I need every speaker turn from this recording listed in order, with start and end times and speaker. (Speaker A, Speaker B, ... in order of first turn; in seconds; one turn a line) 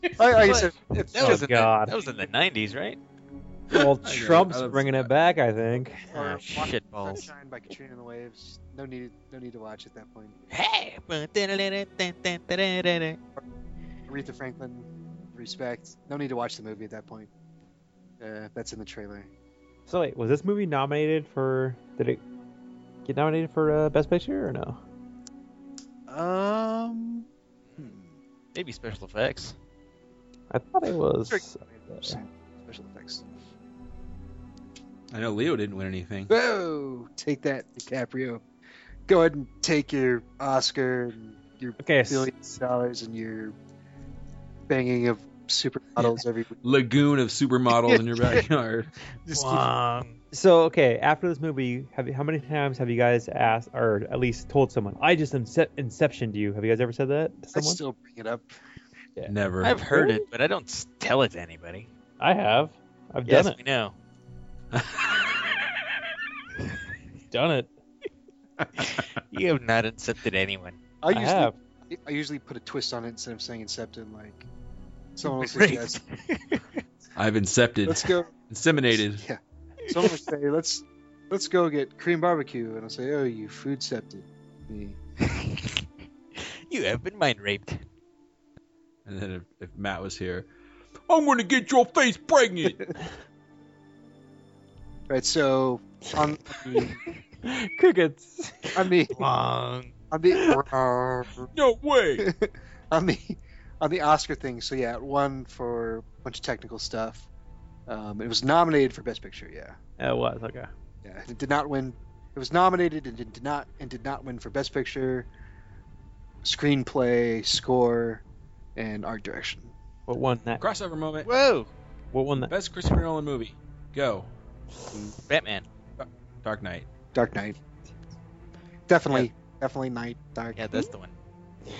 Speaker A: 0.1-1.5
Speaker B: 0.3-3.0
Speaker C: 1.2-1.9
Speaker C: 3.7-6.1
Speaker D: 3.7-5.1
Speaker A: 6.0-10.3
Speaker B: 6.1-7.3
Speaker B: 10.5-13.2
Speaker A: 14.1-17.3
Speaker A: 18.2-19.3
Speaker C: 19.9-22.2
Speaker C: 23.0-24.8
Speaker A: 26.1-28.1
Speaker B: 28.5-29.5
Speaker C: 30.5-32.2
Speaker A: 31.3-33.3
Speaker D: 35.1-36.3
Speaker A: 36.3-38.4
Speaker A: 39.1-43.5
Speaker C: 41.8-42.5
Speaker A: 44.7-46.6
Speaker D: 46.6-48.9
Speaker A: 47.9-48.4
Speaker A: 49.2-49.7
Speaker B: 49.3-50.2
Speaker C: 50.3-57.8
Speaker A: 57.5-58.5
Speaker D: 59.3-59.8
Speaker B: 59.6-61.9
Speaker C: 59.9-60.2
Speaker C: 62.2-63.5
Speaker B: 63.2-63.9
Speaker D: 64.7-65.4
Speaker C: 67.3-67.7
Speaker D: 68.6-69.0
Speaker B: 68.8-70.8
Speaker A: 71.0-74.4
Speaker C: 71.1-71.5
Speaker A: 75.2-76.0
Speaker B: 75.3-76.8
Speaker D: 77.2-79.2
Speaker A: 77.8-78.3
Speaker A: 78.9-85.0
Speaker B: 79.8-80.2
Speaker B: 85.2-87.8
Speaker D: 89.0-90.5
Speaker D: 91.1-92.9
Speaker A: 95.1-97.0
Speaker C: 97.4-98.8
Speaker A: 98.7-99.2
Speaker B: 99.2-99.9
Speaker A: 100.1-101.5
Speaker C: 100.3-100.6
Speaker D: 101.5-102.3
Speaker A: 102.2-107.3
Speaker A: 107.9-109.8
Speaker C: 110.0-110.7
Speaker A: 111.0-115.3
Speaker A: 116.4-118.2
Speaker A: 118.8-119.7
Speaker C: 120.1-120.6
Speaker D: 120.6-121.3
Speaker B: 121.2-121.7
Speaker C: 122.1-122.5
Speaker D: 122.5-124.3
Speaker B: 125.2-125.6
Speaker D: 126.0-126.9
Speaker A: 127.1-127.6
Speaker A: 128.9-130.7
Speaker B: 130.6-131.1